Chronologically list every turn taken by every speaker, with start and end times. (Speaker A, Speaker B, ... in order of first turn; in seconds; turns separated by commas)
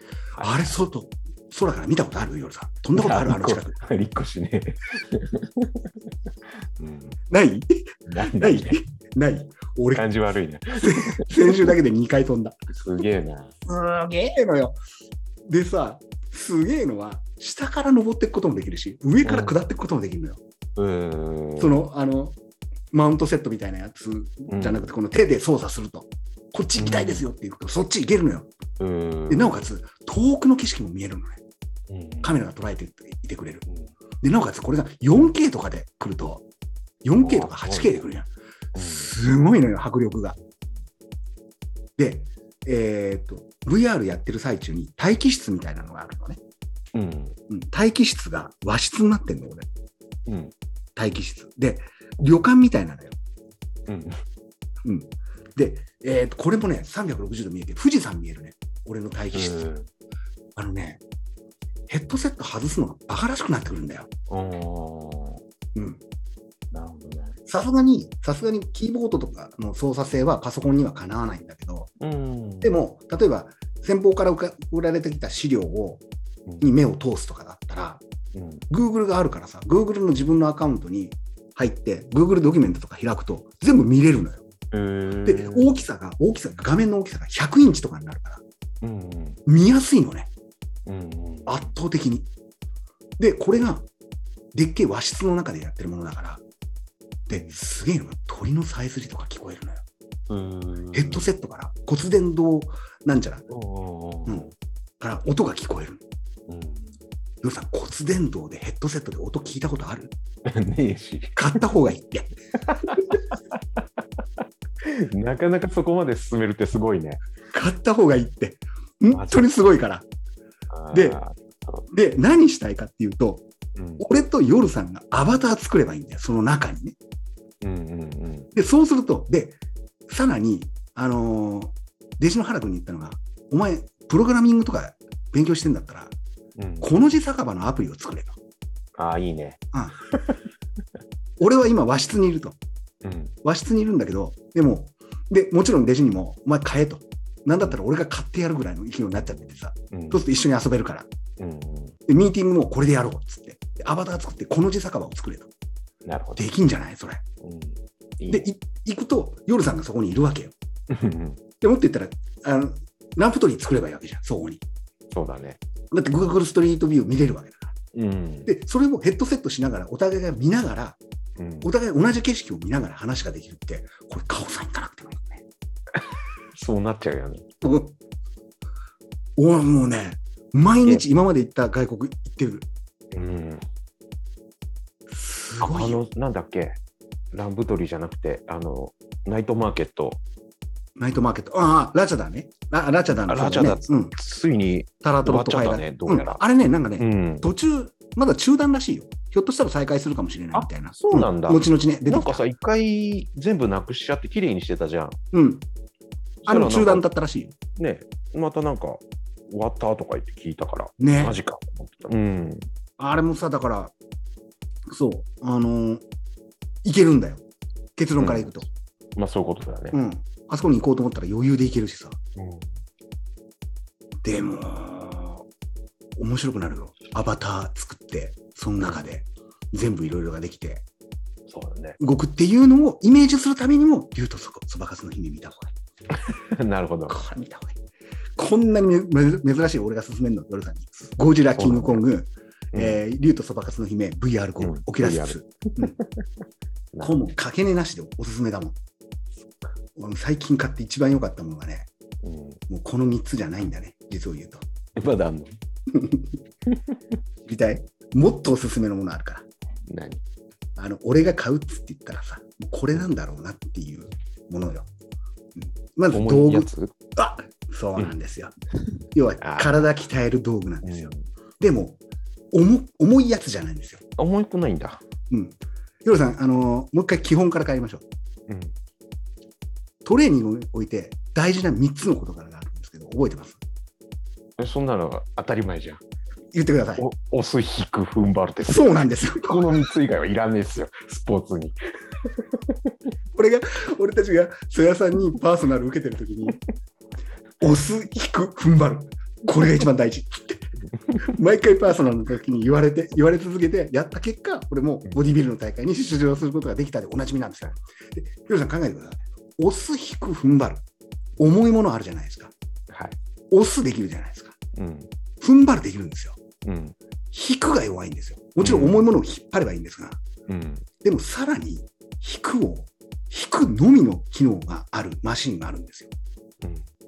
Speaker A: 0.4-0.7, Speaker B: 0.4-3.8, Speaker A: 3.0-6.1, Speaker A: 6.8-7.2, Speaker B: 7.3-10.1, Speaker A: 8.1-8.8, Speaker A: 9.9-11.8, Speaker B: 10.7-12.6, Speaker A: 12.7-13.5, Speaker B: 13.7-14.8, Speaker B: 15.5-20.4, Speaker A: 19.2-19.6, Speaker A: 20.8-21.8, Speaker B: 21.6-22.4, Speaker B: 22.9-28.5, Speaker A: 24.5-24.9, Speaker A: 26.8-27.2, Speaker A: 28.8-29.7, Speaker B: 29.3-31.4, Speaker A: 31.9-32.3, Speaker B: 32.2-33.6, Speaker B: 34.2-36.4, Speaker B: 37.0-40.4, Speaker A: 37.2-38.0, Speaker A: 38.7-39.1, Speaker B: 42.0-46.4, Speaker A: 46.9-47.4, Speaker B: 47.5-49.7, Speaker A: 50.3-50.5, Speaker B: 51.0-53.1, Speaker A: 53.9-54.2, Speaker B: 54.8-59.7, Speaker A: 59.3-59.9, Speaker B: 60.5-61.0, Speaker B: 61.9-64.1, Speaker A: 64.3-65.4, Speaker B: 65.7-66.0, Speaker A: 66.7-67.4, Speaker B: 67.5-71.9, Speaker A: 72.0-72.8, Speaker B: 72.6-76.0, Speaker B: 76.6-78.0, Speaker A: 78.3-78.6, Speaker B: 78.7-84.4, Speaker A: 84.7-85.7, Speaker B: 85.2-88.4, Speaker A: 88.8-89.4, Speaker B: 89.5-90.3, Speaker A: 90.8-91.6, Speaker B: 91.5-92.3, Speaker B: 93.2-93.8, Speaker B: 94.5-96.4, Speaker B: 97.3-99.8, Speaker A: 97.3-97.5, Speaker A: 100.3-101.2, Speaker B: 100.9-103.5, Speaker A: 103.5-104.5, Speaker B: 105.0-106.0, Speaker A: 106.5-107.0, Speaker B: 107.4-110.1, Speaker A: 110.5-111.4, Speaker B: 111.3-112.3, Speaker A: 112.6-113.8, Speaker A: 114.8-117.2, Speaker B: 117.5-120.0, Speaker A: 119.1-119.5, Speaker A: 120.7-121.8, Speaker B: 120.9-121.2, Speaker B: 121.9-123.5, Speaker A: 123.8-124.0, Speaker B: 124.0-127.0, Speaker A: 127.6-128.5, Speaker B: 128.5-136.1, Speaker A: 136.6-136.9, Speaker B: 136.8-138.3, Speaker A: 138.9-140.4, Speaker B: 139.7-140.0, Speaker B: 141.4-142.6, Speaker A: 143.0-143.3, Speaker B: 143.4-151.1, Speaker A: 149.3-150.2, Speaker A: 151.4-152.0, Speaker B: 152.1-155.5, Speaker A: 156.0-156.5, Speaker B: 156.3-157.2, Speaker A: 157.4-158.5, Speaker B: 158.3-160.5, Speaker A: 160.9-161.4, Speaker B: 161.6-164.6, Speaker A: 165.1-165.6, Speaker B: 165.9-167.7, Speaker A: 167.9-168.5, Speaker B: 168.4-171.0, Speaker A: 171.4-171.7, Speaker B: 171.6-175.4, Speaker A: 176.5-177.4, Speaker B: 177.6-177.9, Speaker B: 179.4-182.7, Speaker A: 183.1-183.6, Speaker B: 185.1-186.0, Speaker A: 185.6-186.8, Speaker A: 187.3-190.2, Speaker B: 191.0-194.1, Speaker A: 193.2-196.4, Speaker B: 195.0-202.4, Speaker A: 197.0-197.5, Speaker A: 200.5-205.2, Speaker B: 205.3-205.6, Speaker A: 206.4-207.1, Speaker B: 206.4-207.5, Speaker A: 207.7-212.7, Speaker B: 211.0-211.4, Speaker B: 213.0-213.9, Speaker B: 214.9-216.0, Speaker B: 216.8-217.4, Speaker B: 217.9-218.7, Speaker A: 218.2-218.5, Speaker A: 219.2-220.0, Speaker B: 219.9-222.2, Speaker A: 222.3-222.7, Speaker B: 224.2-225.4, Speaker B: 226.2-230.8, Speaker A: 231.5-232.0, Speaker B: 232.0-235.7, Speaker A: 236.2-237.2, Speaker B: 237.1-237.8, Speaker B: 238.4-245.9, Speaker A: 241.5-242.0, Speaker A: 242.7-243.0, Speaker A: 244.6-246.2, Speaker A: 246.9-247.2, Speaker B: 247.0-248.8, Speaker B: 249.9-251.9, Speaker A: 252.2-252.6, Speaker B: 252.7-254.6, Speaker A: 254.9-255.6, Speaker B: 255.9-256.4, Speaker A: 256.7-257.0, Speaker B: 257.5-259.4, Speaker A: 259.9-260.2, Speaker B: 260.8-264.9, Speaker B: 265.6-268.5, Speaker A: 266.1-266.9, Speaker B: 269.1-272.0, Speaker A: 269.4-269.8, Speaker A: 270.8-271.2, Speaker B: 272.5-274.0, Speaker A: 274.2-275.0, Speaker B: 275.3-278.0, Speaker A: 278.5-278.7, Speaker B: 280.0-283.6, Speaker A: 284.6-286.0, Speaker B: 286.5-287.1, Speaker A: 287.0-291.8, Speaker B: 288.6-289.6, Speaker A: 292.3-292.7, Speaker B: 293.3-296.6, Speaker B: 297.6-310.8, Speaker B: 311.4-312.5, Speaker A: 312.9-313.2, Speaker B: 313.5-314.6, Speaker A: 314.7-315.1, Speaker B: 315.4-316.4, Speaker A: 316.6-316.9, Speaker B: 317.3-320.2, Speaker A: 318.6-319.0, Speaker A: 320.5-320.9, Speaker B: 321.0-326.1